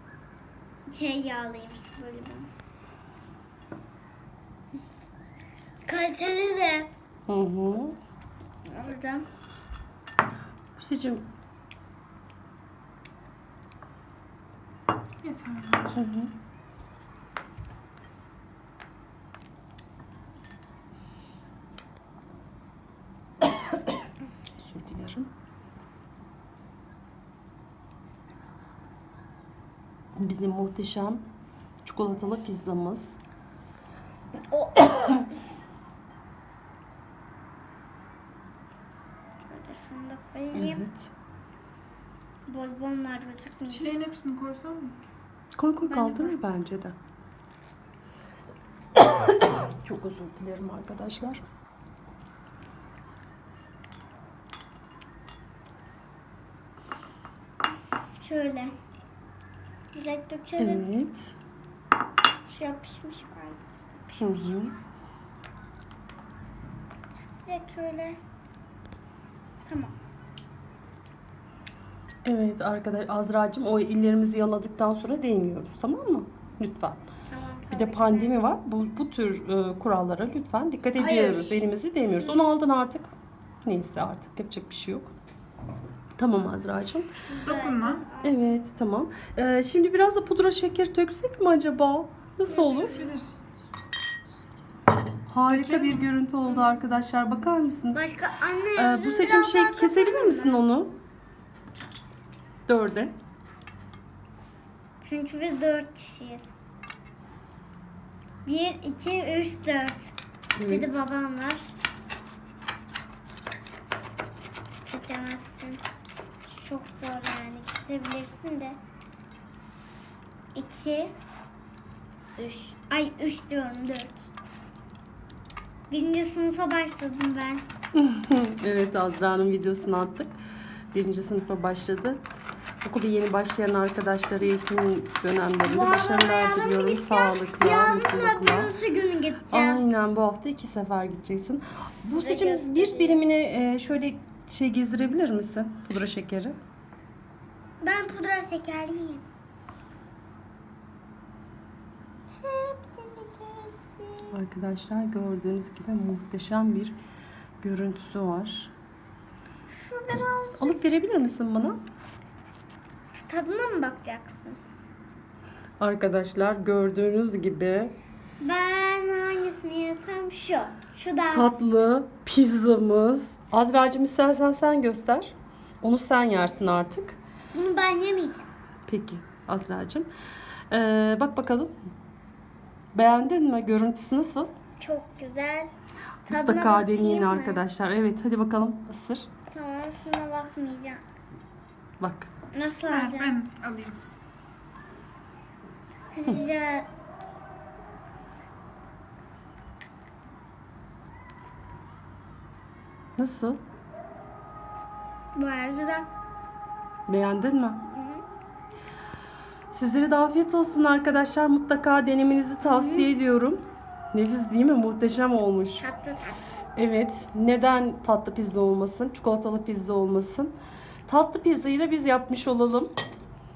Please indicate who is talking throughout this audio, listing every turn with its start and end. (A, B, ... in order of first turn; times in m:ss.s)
0:00.9-0:02.5 A
0:05.8-0:06.9 A
0:07.3-0:08.0 B
0:08.6-0:09.2 A
0:10.7-0:11.2 B
0:15.2-0:15.9 C
0:15.9-0:16.3 B
0:24.5-0:25.3 B
0:30.2-0:31.2 B
0:31.8-0:33.1 B
0:34.5-0:35.2 A
0:39.5-0:40.8 A
0:40.5-0:41.1 B
0:42.5-0:44.0 A
0:43.7-0:45.0 C
0:45.6-0:46.9 B
0:45.8-0:46.4 A
0:49.0-0:51.4 B
0:58.2-0:58.7 A
0:59.9-1:00.9 A
1:00.6-1:01.4 B
1:02.5-1:04.7 A
1:04.2-1:04.7 B
1:07.4-1:08.2 A
1:09.6-1:09.9 A
1:12.2-1:17.0 B
1:17.3-1:18.5 A
1:17.7-1:23.1 B
1:21.0-1:21.7 A
1:23.6-1:25.1 B
1:26.2-1:27.2 B
1:27.2-1:28.6 A
1:27.4-1:28.0 C
1:28.2-1:32.9 B
1:32.5-1:33.1 A
1:32.5-1:33.4 C
1:35.3-1:38.0 B
1:35.5-1:36.1 C
1:37.9-1:40.6 A
1:38.8-1:40.9 B
1:42.7-1:43.1 B
1:45.0-1:46.6 A
1:48.4-1:51.8 A
1:50.6-1:51.0 B
1:54.8-1:55.8 A
1:56.5-1:58.8 A
2:00.5-2:01.1 A
2:02.4-2:04.3 A
2:05.9-2:07.6 A
2:07.9-2:10.3 B
2:10.9-2:12.2 B
2:12.8-2:18.8 B
2:15.6-2:19.8 A
2:19.5-2:26.6 B
2:22.2-2:23.2 A
2:27.8-2:29.2 A
2:32.4-2:34.4 A
2:34.3-2:37.0 B
2:37.6-2:38.7 B
2:39.7-2:40.8 A
2:40.6-2:41.8 B
2:43.3-2:44.6 A
2:45.8-2:47.9 B
2:48.4-2:51.6 A
2:51.3-2:57.2 B
2:57.5-2:58.5 A
2:58.9-3:00.1 B
3:00.7-3:01.7 B
3:02.9-3:04.5 B
3:04.8-3:05.7 A
3:06.2-3:09.3 B
3:06.3-3:07.6 A
3:09.5-3:11.0 A
3:12.0-3:12.3 B
3:12.5-3:13.4 A
3:12.9-3:14.0 C
3:16.1-3:16.9 A
3:23.2-3:23.6 B
3:25.3-3:26.1 A
3:27.1-3:27.8 B
3:27.9-3:28.2 A
3:29.7-3:33.6 B
3:32.6-3:33.1 A
3:34.1-3:35.8 B
3:35.8-3:36.6 A
3:36.8-3:40.5 B
3:41.1-3:42.9 B